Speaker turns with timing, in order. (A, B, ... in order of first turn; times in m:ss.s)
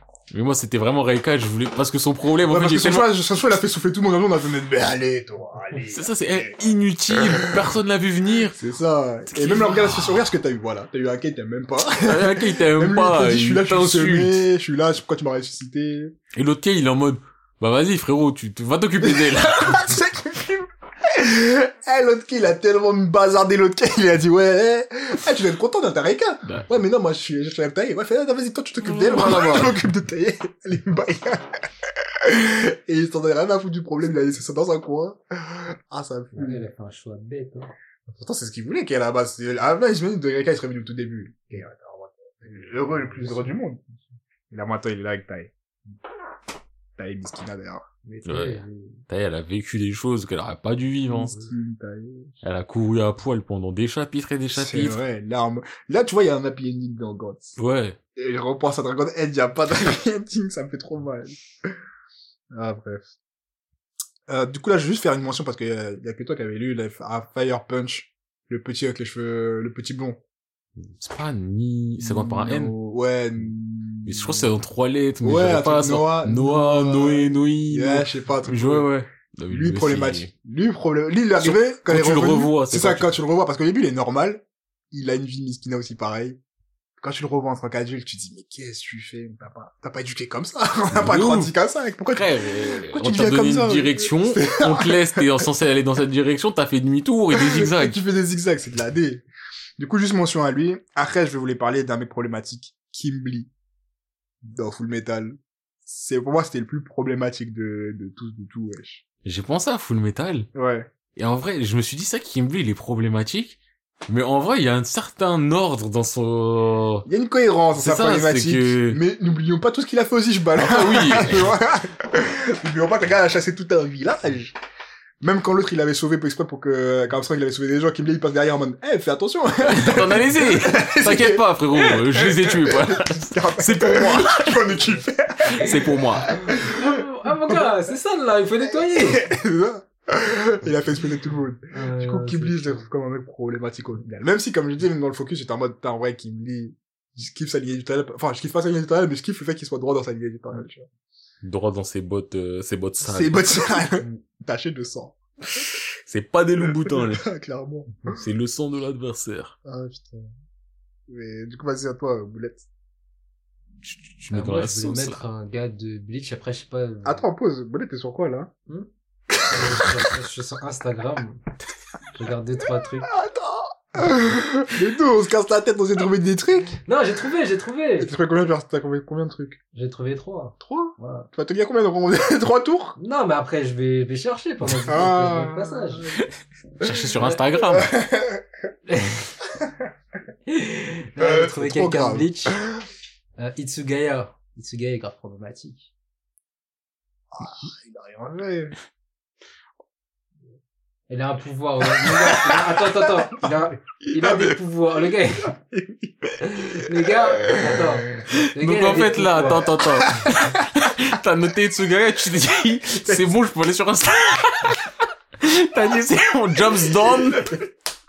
0:00.3-0:03.1 A
0:02.4-0:06.6 B
0:05.9-0:08.6 A
0:07.2-0:07.5 B
0:08.6-0:16.1 B
0:09.3-0:10.2 A
0:12.0-0:14.4 A
0:16.3-0:20.0 A
0:19.0-0:36.6 B
0:28.8-0:29.7 A
0:36.3-0:37.7 C
0:38.1-0:43.8 B
0:43.1-0:43.5 C
0:44.5-0:45.5 B
0:47.0-0:47.8 B
0:48.0-0:49.0 C
0:48.2-0:51.3 A
0:51.1-0:52.3 B
0:51.3-0:51.5 C
0:52.4-0:55.0 A
0:54.5-0:57.6 B
0:57.6-0:58.0 A
0:58.2-1:01.7 B
1:02.5-1:03.1 B
1:04.3-1:10.2 B
1:11.0-1:12.7 A
1:12.0-1:14.5 B
1:14.0-1:20.3 A
1:15.2-1:18.9 B
1:19.5-1:26.4 B
1:21.4-1:23.2 A
1:27.0-1:35.5 B
1:30.9-1:31.5 A
1:32.1-1:38.0 A
1:37.3-1:39.2 B
1:39.8-1:43.5 B
1:44.4-1:49.0 B
1:49.2-1:50.5 A
1:50.5-1:50.9 B
1:51.2-1:57.1 A
1:57.0-2:04.6 B
1:57.8-1:59.0 A
2:00.6-2:01.6 A
2:05.2-2:17.7 B
2:09.6-2:14.8 A
2:15.5-2:16.3 A
2:16.2-2:19.3 C
2:18.6-2:30.9 B
2:21.7-2:22.9 C
2:31.4-2:33.7 A
2:33.0-2:35.2 B
2:36.0-2:37.3 A
2:36.6-2:38.2 B
2:38.1-2:39.5 A
2:39.6-2:40.3 B
2:41.1-2:42.6 B
2:43.8-2:45.2 A
2:44.3-2:47.2 C
2:47.0-2:48.5 B
2:49.5-2:51.4 C
2:49.5-2:49.9 B
2:52.1-2:53.1 C
2:53.1-2:56.8 B
2:56.8-2:58.1 C
2:58.0-2:59.6 B
2:59.7-3:01.3 C
3:00.6-3:03.0 B
3:03.0-3:06.2 C
3:04.6-3:06.2 B
3:06.8-3:07.9 A
3:07.7-3:08.4 B
3:08.9-3:09.2 C
3:10.5-3:12.6 C
3:11.2-3:12.7 B
3:13.4-3:15.9 C
3:17.3-3:18.7 B
3:21.1-3:25.5 C
3:21.9-3:23.5 B
3:24.0-3:24.6 B
3:25.5-3:28.2 B
3:26.7-3:29.7 C
3:28.3-3:34.8 A
3:30.0-3:30.3 B
3:35.4-3:37.6 A